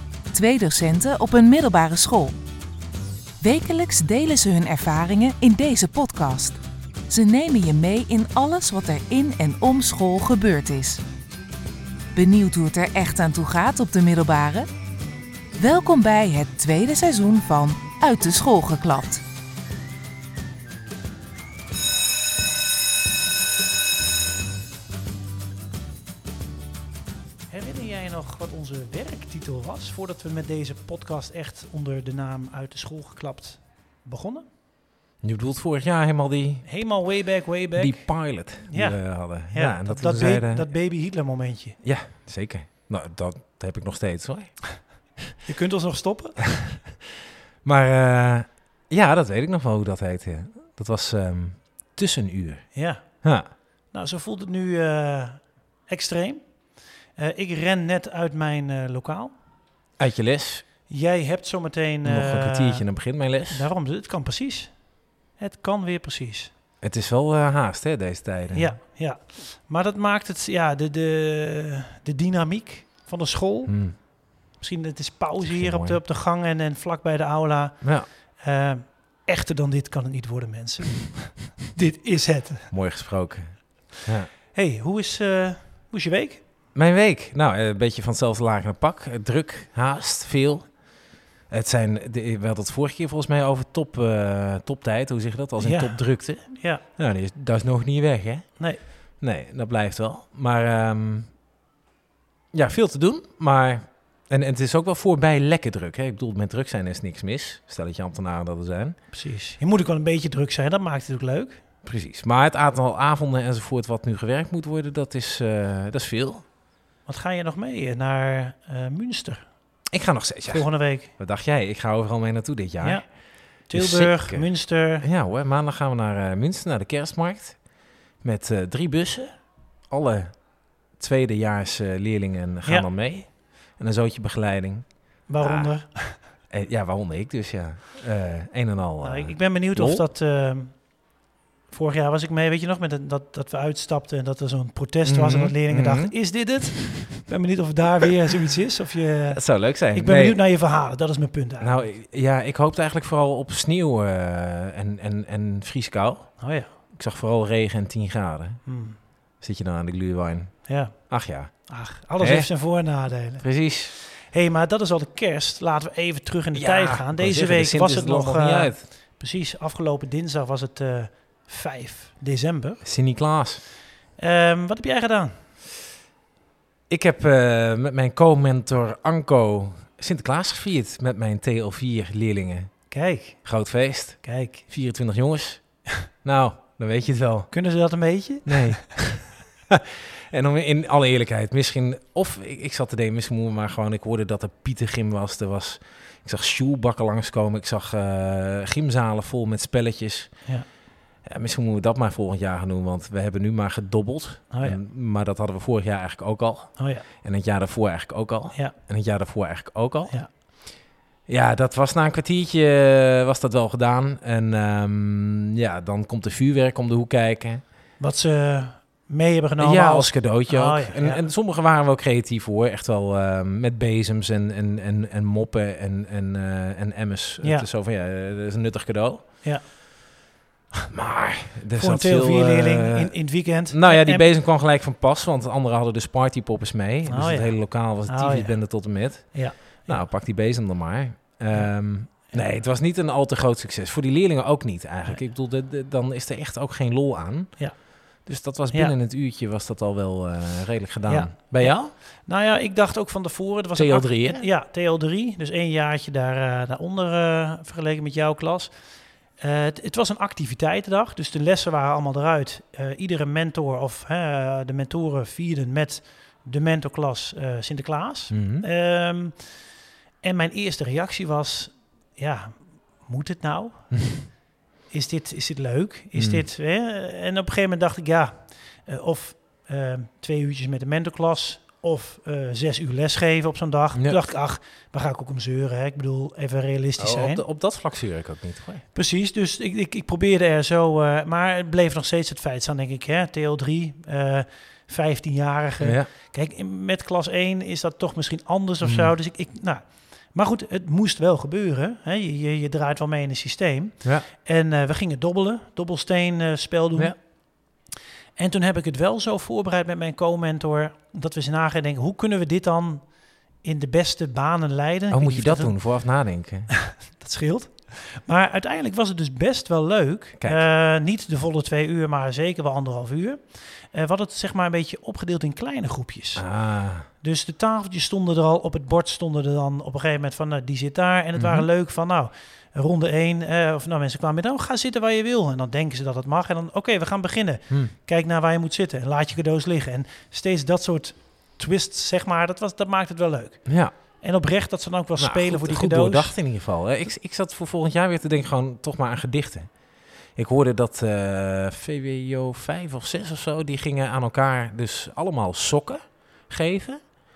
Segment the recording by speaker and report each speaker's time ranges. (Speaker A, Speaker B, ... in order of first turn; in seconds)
Speaker A: 0.3-2.4, 3.4-11.0, 12.1-14.7, 15.6-19.2
Speaker B: 27.5-34.5, 36.6-41.8, 45.4-46.7, 52.7-53.2, 53.9-56.4, 57.1-59.3, 60.9-62.9, 63.5-64.8, 65.4-66.5, 68.5-82.7, 84.5-86.4, 95.6-96.8, 98.6-98.8, 109.1-111.6, 117.0-119.5, 120.5-121.1, 122.8-123.0, 123.7-125.0, 135.3-136.2, 139.0-140.9, 141.7-151.9, 156.4-156.7, 158.6-159.0, 160.6-161.0, 161.7-172.8, 174.2-175.4, 182.9-183.5, 184.2-184.6, 187.5-188.9, 204.5-204.8, 206.8-207.1, 218.0-221.3, 227.4-227.7, 231.7-234.3, 237.1-240.0, 241.5-242.5, 251.1-258.8, 259.4-269.5, 270.2-274.1, 274.9-287.4, 288.9-307.1, 308.4-315.8, 317.1-326.5, 327.2-346.3
Speaker C: 35.2-36.7, 37.7-40.7, 41.8-44.8, 47.6-52.7, 53.2-53.5, 60.0-60.6, 62.0-63.7, 66.8-68.7, 73.7-74.0, 75.4-76.0, 77.8-78.1, 82.7-84.3, 86.7-90.9, 91.5-101.3, 102.5-108.9, 111.8-116.4, 119.9-123.1, 123.7-127.6, 128.2-129.3, 129.9-130.4, 130.9-135.7, 136.5-140.0, 145.0-146.1, 149.3-150.4, 151.6-156.4, 156.9-158.6, 159.4-161.7, 162.2-162.7, 163.4-163.9, 166.5-168.8, 172.8-173.6, 176.9-182.7, 183.4-187.5, 188.4-200.4, 201.2-210.2, 211.3-217.6, 219.6-229.2, 230.9-251.9, 253.7-254.4, 268.3-268.6, 273.9-274.2, 276.1-276.4, 287.0-288.8, 295.8-296.1, 298.8-299.1, 315.1-316.8, 326.4-327.1, 331.4-331.7, 343.6-343.9, 345.2-349.7, 350.3-357.1